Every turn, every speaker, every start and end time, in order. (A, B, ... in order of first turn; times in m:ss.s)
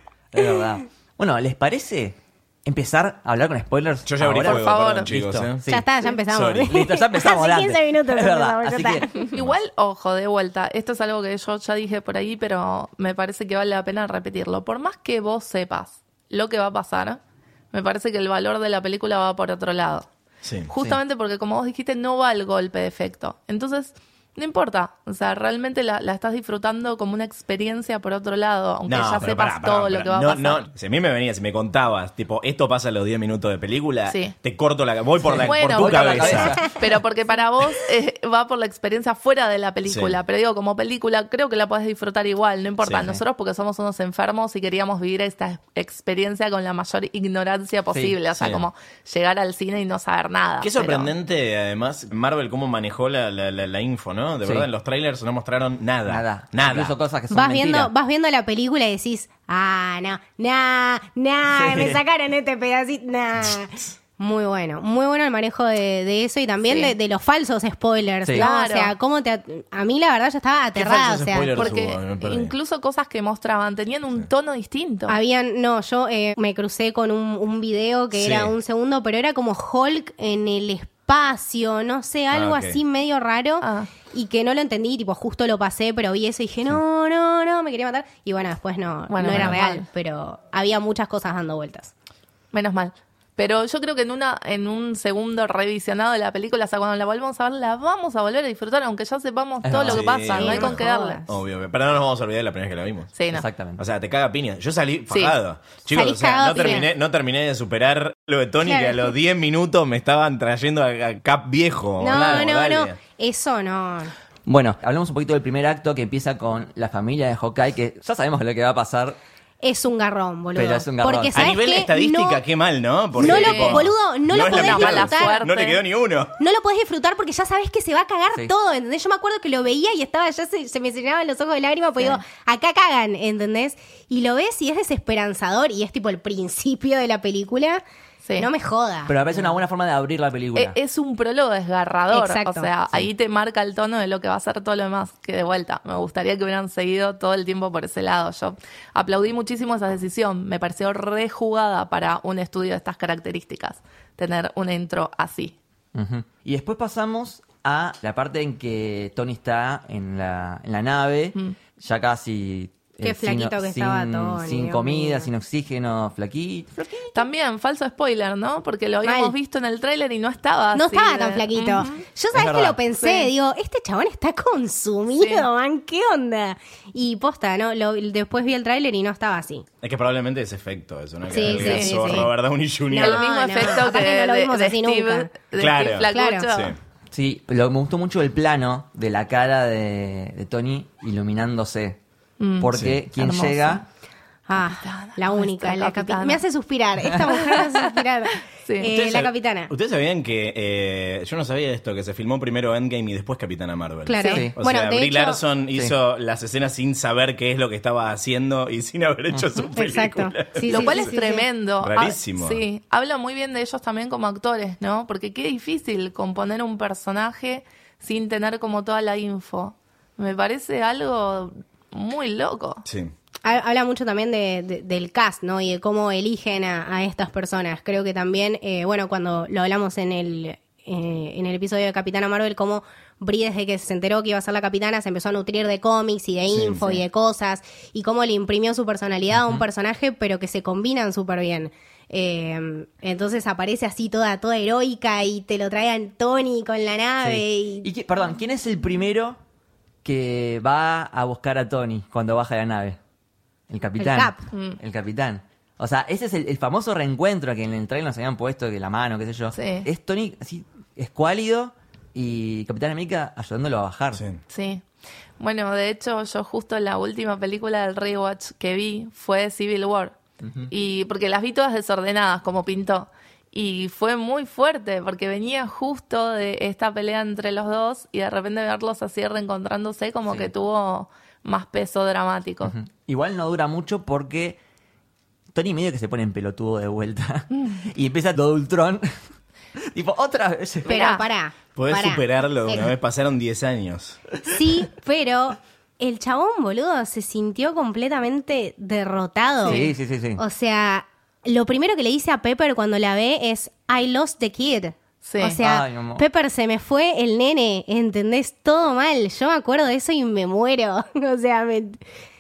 0:00.3-0:05.9 A
0:04.1-0:05.6 B
0:04.4-0:05.1 C
0:05.7-0:09.3 D
0:06.3-0:06.7 B
0:06.6-0:09.1 A
0:09.2-0:17.2 C
0:17.7-0:20.1 C
0:20.4-0:20.7 B
0:20.7-0:30.6 C
0:28.9-0:36.8 B
0:34.1-0:34.4 C
0:35.2-0:36.8 A
0:35.4-0:51.1 C
0:39.9-0:40.2 B
0:42.9-0:43.2 A
0:47.9-0:48.2 A
0:48.4-0:48.6 B
0:50.6-0:57.0 B
0:56.1-0:57.9 A
0:57.3-1:11.8 D
1:01.5-1:02.0 A
1:08.4-1:09.0 C
1:10.8-1:12.5 B
1:11.5-1:15.2 C
1:15.1-1:31.9 D
1:18.2-1:18.5 B
1:22.3-1:22.8 B
1:23.6-1:23.9 C
1:29.1-1:29.9 C
1:29.3-1:29.6 A
1:32.5-1:41.2 C
1:39.6-1:40.1 A
1:39.8-1:43.1 B
1:40.3-1:41.3 D
1:43.2-1:43.5 C
1:43.3-1:43.8 A
1:43.8-1:53.0 B
1:45.1-1:45.4 C
1:45.9-1:46.9 D
1:46.6-1:46.8 C
1:48.6-1:49.1 D
1:52.0-1:54.1 D
1:54.5-1:59.2 A
1:59.6-2:02.4 D
2:00.6-2:01.5 A
2:01.3-2:06.4 B
2:03.2-2:05.4 D
2:03.2-2:05.8 C
2:06.4-2:17.8 D
2:18.4-2:19.1 D
2:19.1-2:20.8 A
2:20.6-2:35.6 C
2:22.1-2:22.7 D
2:35.9-2:47.2 A
2:43.0-2:45.3 D
2:47.1-2:52.0 C
2:49.0-2:49.3 D
2:50.8-2:59.7 D
2:52.3-2:52.8 A
2:53.0-2:53.3 C
2:55.2-2:55.5 C
2:59.8-3:03.7 B
3:01.3-3:02.3 D
3:01.4-3:02.3 C
3:02.9-3:05.3 D
3:02.9-3:06.8 C
3:05.6-3:06.8 B
3:06.1-3:06.5 D
3:07.1-3:12.0 A
3:12.4-3:13.8 C
3:12.6-3:13.8 A
3:14.5-3:19.7 D
3:14.5-3:16.4 C
3:17.2-3:18.0 C
3:18.6-3:18.9 C
3:18.8-3:31.1 B
3:24.0-3:25.4 D
3:24.2-3:24.5 C
3:24.2-3:24.5 A
3:29.3-3:29.7 A
3:29.8-3:31.5 D
3:30.7-3:42.8 C
3:31.8-3:32.6 B
3:42.9-3:43.1 B
3:43.4-4:07.9 D
3:56.5-3:56.8 B
3:59.3-3:59.6 A
4:07.2-4:09.4 A
4:10.0-4:13.0 A
4:13.7-4:24.2 A
4:14.0-4:14.4 D
4:14.5-4:14.8 C
4:19.5-4:19.9 C
4:24.2-4:24.4 B
4:24.5-4:24.8 C
4:25.4-4:30.2 C
4:30.4-4:30.7 A
4:30.7-4:42.7 C
4:42.7-4:44.6 A
4:45.5-4:49.1 A
4:49.9-4:51.0 A
4:50.9-4:51.2 C
4:50.9-4:52.9 D
4:51.8-4:54.2 B
4:54.5-4:59.9 D
4:59.7-5:00.4 A
5:00.4-5:12.0 D
5:05.2-5:05.6 C
5:05.6-5:06.2 A